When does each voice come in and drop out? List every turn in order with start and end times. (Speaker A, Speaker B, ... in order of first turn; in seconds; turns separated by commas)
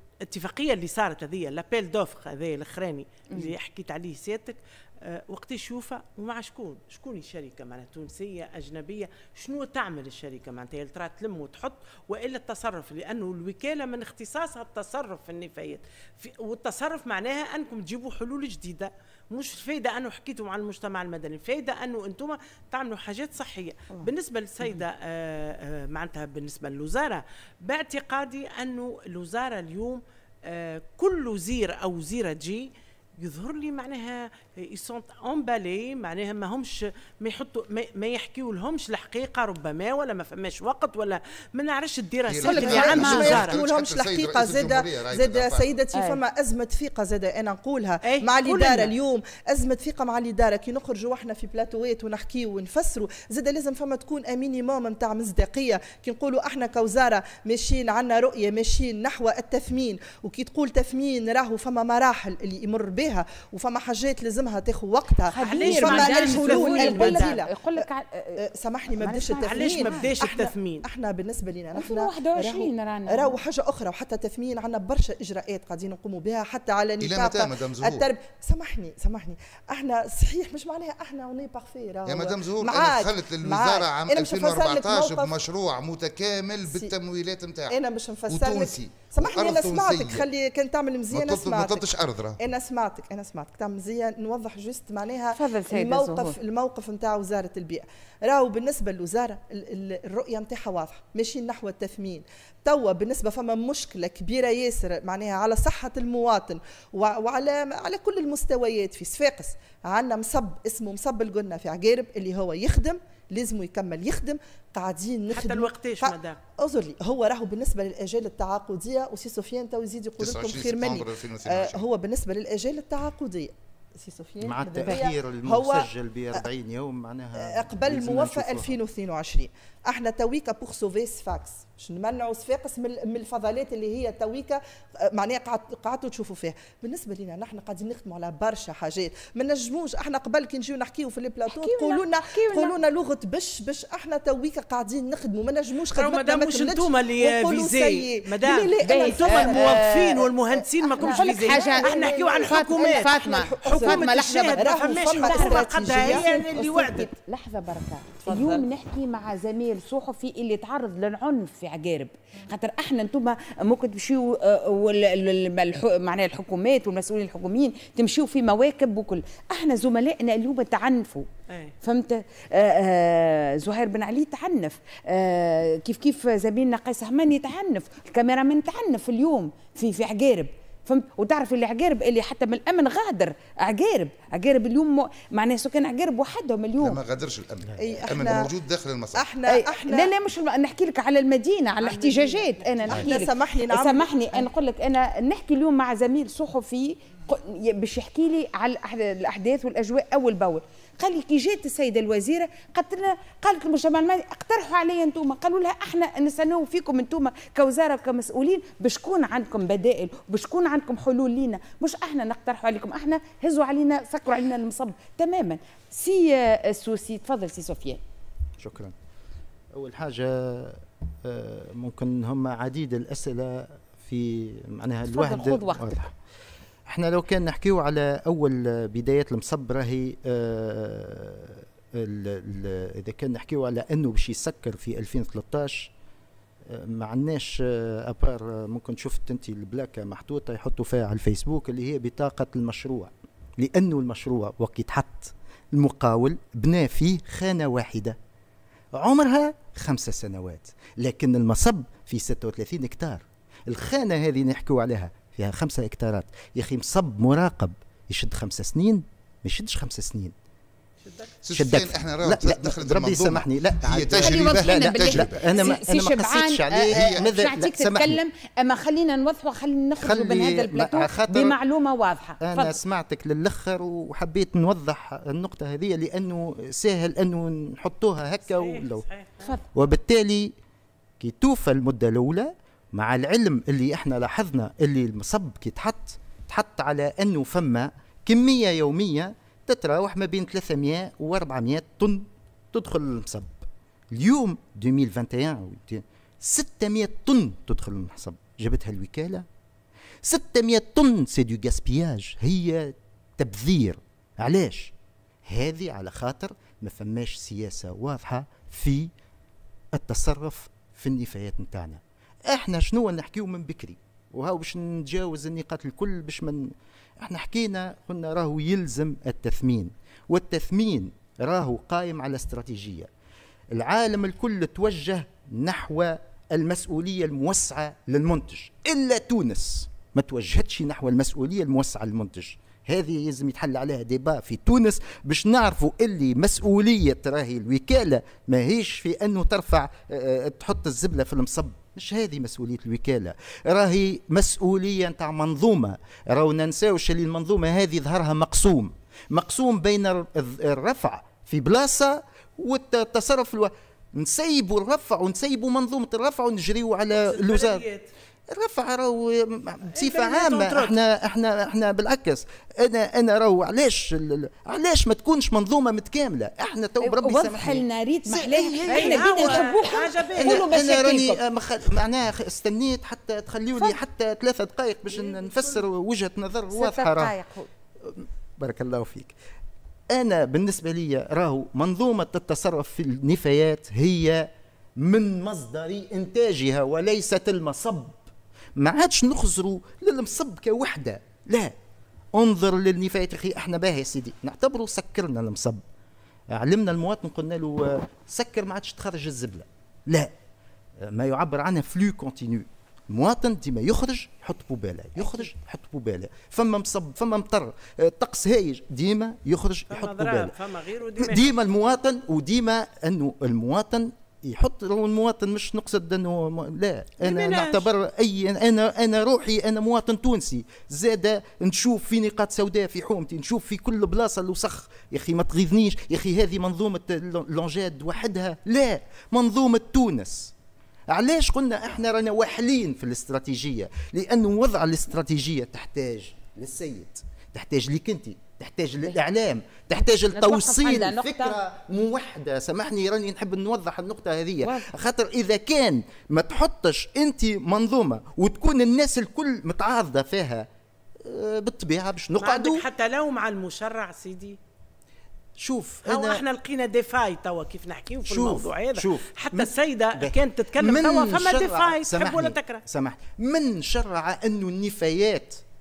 Speaker A: 0.2-43.5, Speaker B: 42.3-45.7, Speaker C: 42.5-43.5, Speaker D: 42.5-67.8, Speaker A: 48.0-48.9, Speaker C: 65.3-68.3, Speaker A: 65.4-67.4, Speaker D: 68.4-85.4, Speaker C: 69.0-70.0, Speaker A: 69.4-70.8, Speaker C: 71.8-73.3, Speaker B: 77.0-78.0, Speaker B: 82.1-87.7, Speaker D: 86.6-86.9, Speaker D: 87.7-126.5, Speaker B: 88.3-90.2, Speaker B: 91.1-92.4, Speaker C: 95.3-96.3, Speaker A: 115.3-116.4, Speaker B: 120.2-121.8, Speaker E: 124.4-128.8, Speaker D: 127.3-156.3, Speaker C: 141.5-142.7, Speaker A: 145.9-157.1, Speaker C: 148.8-150.3, Speaker C: 151.0-171.3, Speaker D: 158.2-158.6, Speaker C: 171.8-187.0, Speaker B: 186.8-189.2, Speaker D: 187.8-188.6, Speaker D: 189.1-190.1, Speaker C: 189.5-218.0, Speaker A: 191.8-192.6, Speaker D: 192.9-194.5, Speaker E: 218.6-218.9, Speaker E: 219.7-226.1, Speaker C: 225.1-226.1, Speaker E: 226.9-235.9, Speaker E: 236.7-248.2, Speaker E: 248.9-260.3, Speaker A: 261.0-261.3, Speaker B: 261.4-265.5, Speaker E: 261.5-268.2, Speaker C: 264.2-272.8, Speaker B: 266.9-267.2, Speaker E: 270.0-271.6, Speaker E: 272.4-279.0, Speaker A: 278.5-279.5, Speaker E: 279.7-280.5, Speaker E: 281.2-299.4, Speaker E: 300.2-304.9, Speaker E: 305.4-309.1, Speaker E: 309.9-323.1, Speaker E: 323.7-357.8, Speaker A: 357.2-358.1, Speaker E: 358.5-369.5, Speaker A: 360.0-360.9, Speaker C: 367.0-371.4, Speaker A: 368.9-370.6, Speaker E: 370.4-377.4, Speaker A: 375.1-375.8, Speaker C: 376.7-377.7, Speaker E: 378.0-379.3, Speaker E: 380.1-388.2, Speaker E: 388.8-391.7, Speaker E: 392.3-395.8, Speaker E: 396.5-400.3, Speaker E: 401.0-410.5, Speaker A: 409.9-411.5, Speaker E: 411.2-430.5, Speaker A: 417.2-417.9, Speaker E: 431.1-450.7, Speaker C: 440.3-441.6, Speaker C: 444.6-444.9, Speaker E: 451.2-452.8, Speaker A: 452.4-454.6, Speaker E: 455.6-456.4, Speaker A: 456.0-462.8, Speaker E: 458.3-465.6